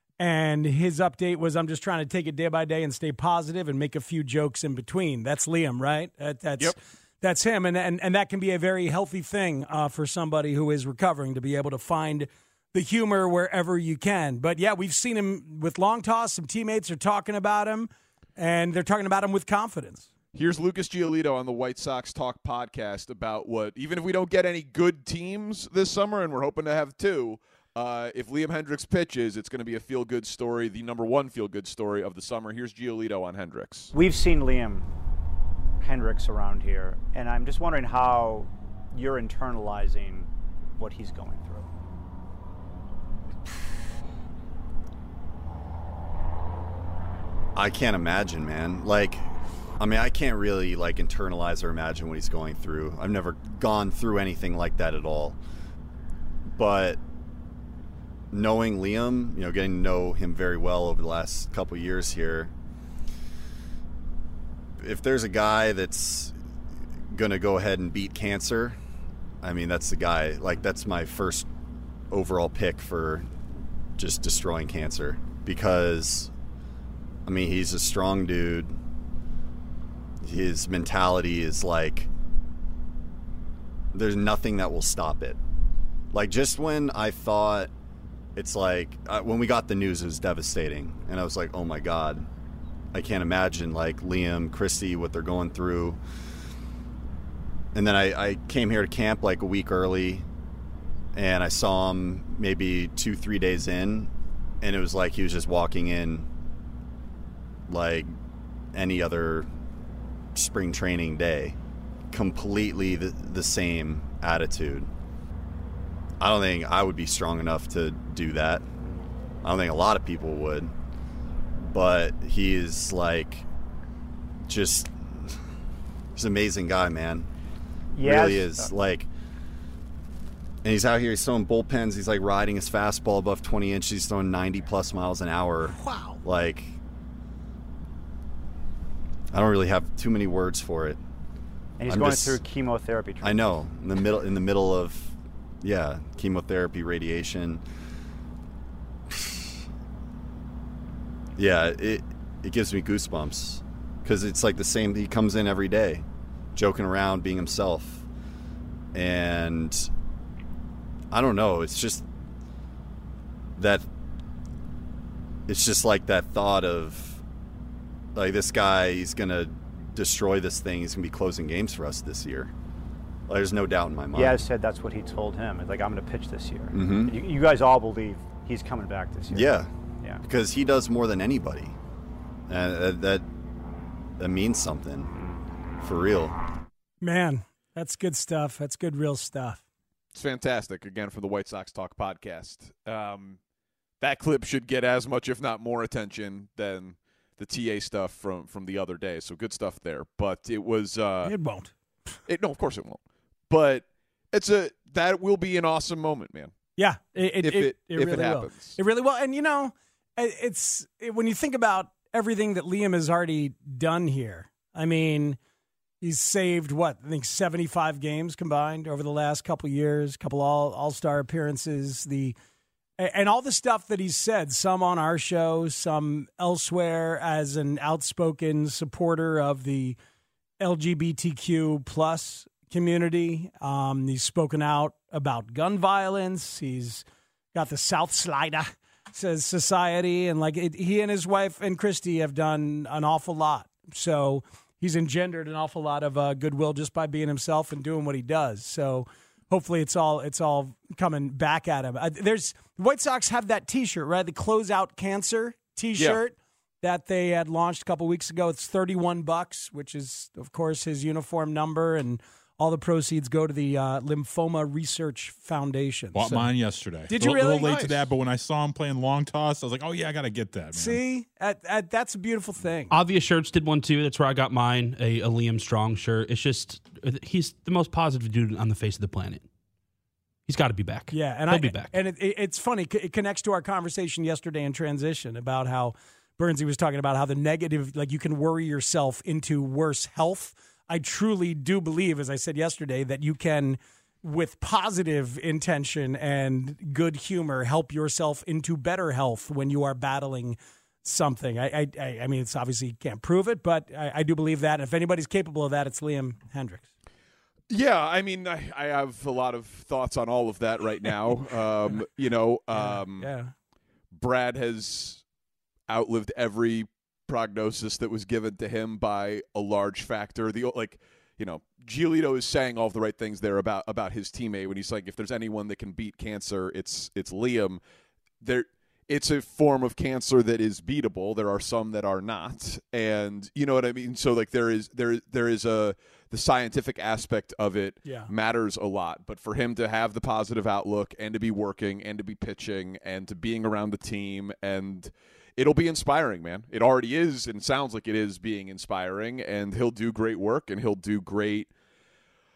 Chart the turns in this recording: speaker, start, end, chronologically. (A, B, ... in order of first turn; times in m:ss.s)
0:00.2-0:20.1 A
0:20.3-0:33.9 B
0:33.9-0:34.9 C
0:35.8-0:41.7 C
0:47.6-0:49.2 D
0:49.8-0:55.4 D
0:56.6-0:57.0 D
0:58.3-1:02.5 D
1:04.8-1:06.3 D
1:07.1-1:08.8 D
1:09.4-1:11.5 D
1:12.1-1:13.3 D
1:14.0-1:16.3 D
1:17.3-1:18.8 D
1:20.2-1:22.1 D
1:23.9-1:25.4 D
1:26.1-1:27.7 D
1:28.4-1:32.3 D
1:32.9-1:36.0 D
1:37.8-1:40.2 D
1:41.2-1:44.1 D
1:44.6-1:46.3 D
1:47.7-1:48.1 D
1:48.7-1:49.5 D
1:50.4-1:51.6 D
1:52.1-1:54.9 D
1:56.2-1:58.6 D
1:59.4-2:00.7 D
2:01.6-2:03.4 D
2:04.5-2:04.9 D
2:06.2-2:07.3 D
2:08.0-2:08.7 C
2:08.0-2:09.1 D
2:10.6-2:16.7 D
2:15.7-2:16.2 A
2:19.3-2:21.0 D
2:21.8-2:23.5 C
2:21.9-2:22.4 D
2:23.2-2:27.6 D
2:29.1-2:29.4 D
2:31.4-2:36.0 D
2:36.6-2:38.0 D
2:38.9-2:39.9 D
2:41.1-2:42.0 D
2:43.6-2:43.8 D
2:45.5-2:47.2 D
2:48.2-2:52.5 D
2:53.3-2:54.4 D
2:54.1-3:00.2 C
2:56.7-2:57.2 D
2:59.3-2:59.7 D
3:00.2-3:01.7 D
3:02.5-3:03.2 D
3:04.2-3:05.1 D
3:05.8-3:06.4 D
3:07.0-3:09.6 A
3:10.1-3:13.4 B
3:14.0-3:21.4 B
3:21.2-3:21.7 A
3:22.3-3:23.0 B
3:23.5-3:26.5 B
3:26.8-3:35.4 A
3:27.4-3:28.8 B
3:36.0-3:42.4 A
3:43.0-3:50.0 A
3:50.6-4:26.5 A
4:26.1-4:31.0 E
4:27.1-4:27.9 A
4:30.8-4:32.9 A
4:32.9-4:39.4 F
4:40.5-4:41.9 F
4:41.1-5:06.9 A
5:07.7-5:13.3 B
5:12.7-5:13.5 A
5:14.1-5:15.2 B
5:15.9-5:27.8 B
5:28.4-5:51.7 B
5:38.0-5:38.3 A